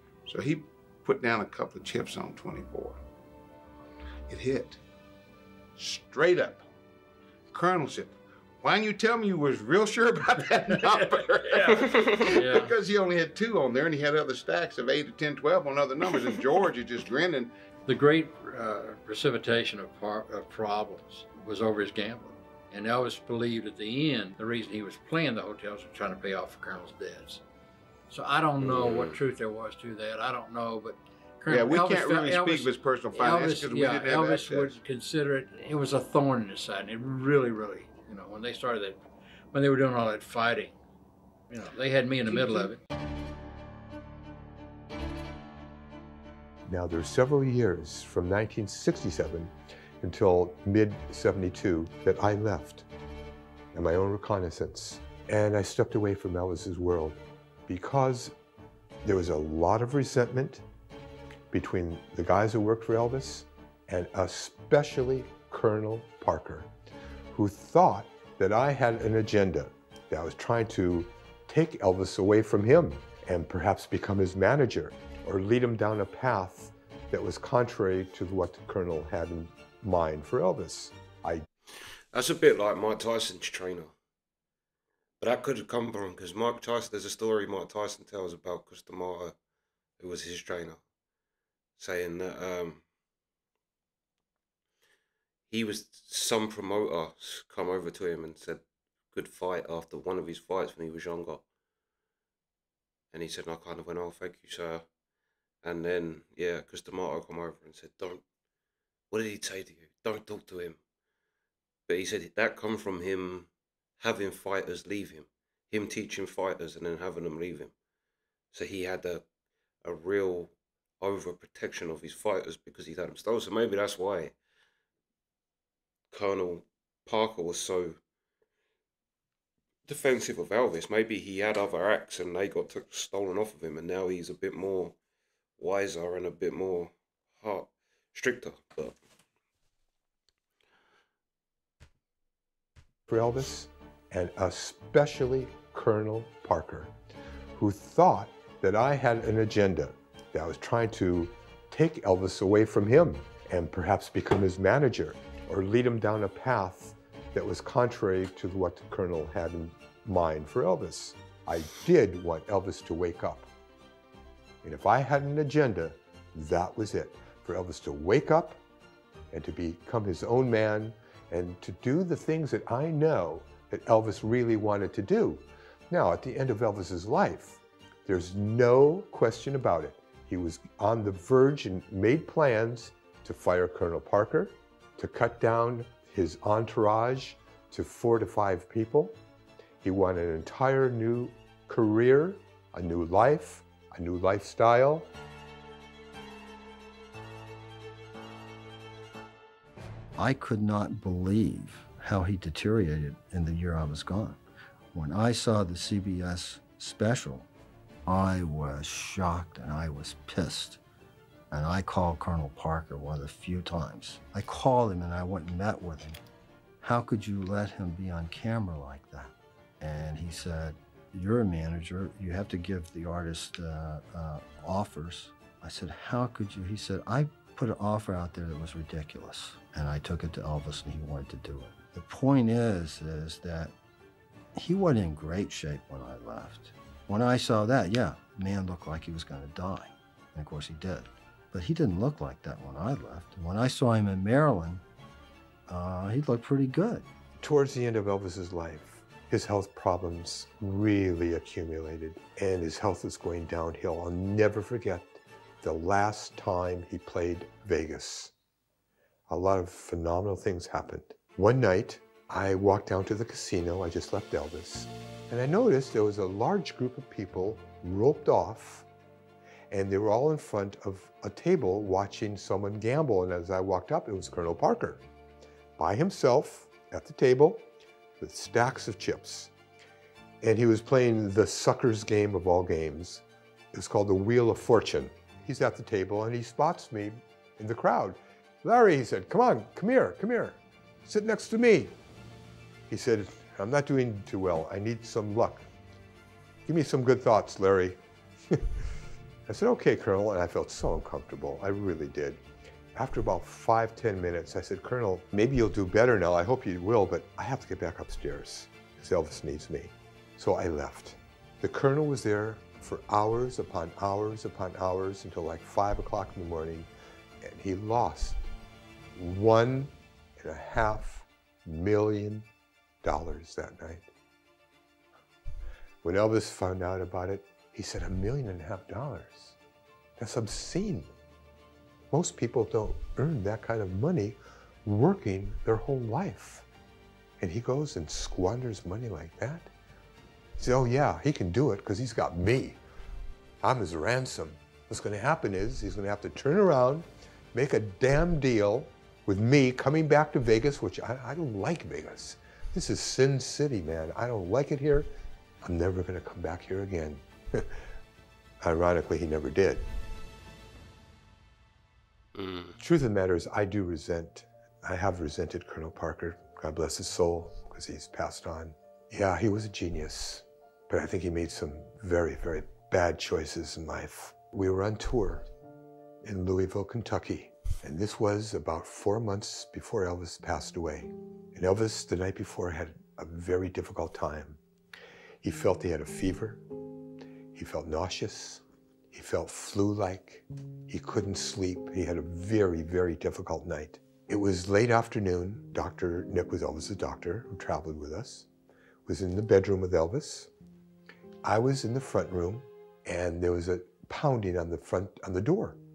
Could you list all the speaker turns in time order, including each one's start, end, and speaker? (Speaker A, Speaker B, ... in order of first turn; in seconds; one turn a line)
Speaker A: 0.3-3.0
Speaker A: 4.3-4.8
Speaker A: 5.8-6.7
Speaker A: 7.5-17.5
Speaker B: 10.6-11.8
Speaker C: 11.8-12.2
Speaker B: 12.3-12.7
Speaker B: 17.9-27.4
Speaker B: 28.1-39.0
Speaker C: 28.6-29.2
Speaker A: 31.5-34.8
Speaker B: 39.5-40.8
Speaker B: 41.5-42.8
Speaker A: 42.3-42.7
Speaker D: 46.7-52.9
Speaker D: 53.7-58.3
Speaker D: 59.0-60.6
Speaker D: 61.5-66.7
Speaker D: 67.3-81.4
Speaker C: 82.1-83.9
Speaker C: 85.2-89.3
Speaker C: 90.0-90.8
Speaker C: 91.8-92.8
Speaker C: 95.5-101.4
Speaker C: 103.1-104.8
Speaker C: 105.6-108.2
Speaker C: 109.1-110.8
Speaker C: 111.9-117.7
Speaker C: 118.5-119.2
Speaker C: 119.8-124.3
Speaker C: 126.1-128.0
Speaker C: 129.9-134.9
Speaker C: 135.6-138.9
Speaker D: 143.1-146.9
Speaker D: 147.6-163.5
Speaker D: 164.6-168.6
Speaker D: 169.3-189.2
Speaker D: 189.8-195.1
Speaker E: 200.2-204.4
Speaker E: 204.9-207.5
Speaker E: 208.1-210.8
Speaker E: 211.5-216.2
Speaker E: 216.8-233.7
Speaker E: 234.6-244.8
Speaker E: 245.7-247.1
Speaker D: 247.4-258.3
Speaker D: 259.3-268.9
Speaker D: 269.7-275.0
Speaker D: 275.8-277.7
Speaker D: 278.2-279.5
Speaker D: 280.4-291.9
Speaker D: 292.9-295.7
Speaker D: 296.6-298.0
Speaker D: 299.5-302.4
Speaker D: 302.9-316.9
Speaker D: 317.4-318.5
Speaker D: 319.1-322.5
Speaker D: 323.0-324.1
Speaker D: 326.0-329.6
Speaker D: 330.2-331.1
Speaker D: 332.1-336.6
Speaker D: 337.4-339.7
Speaker D: 340.6-342.8
Speaker D: 343.6-355.1
Speaker D: 355.6-357.7
Speaker D: 358.6-359.9
Speaker C: 362.3-362.8
Speaker D: 362.8-375.5
Speaker D: 376.2-384.6
Speaker D: 385.4-386.6
Speaker D: 387.5-398.5
Speaker D: 399.1-400.5
Speaker D: 401.4-405.8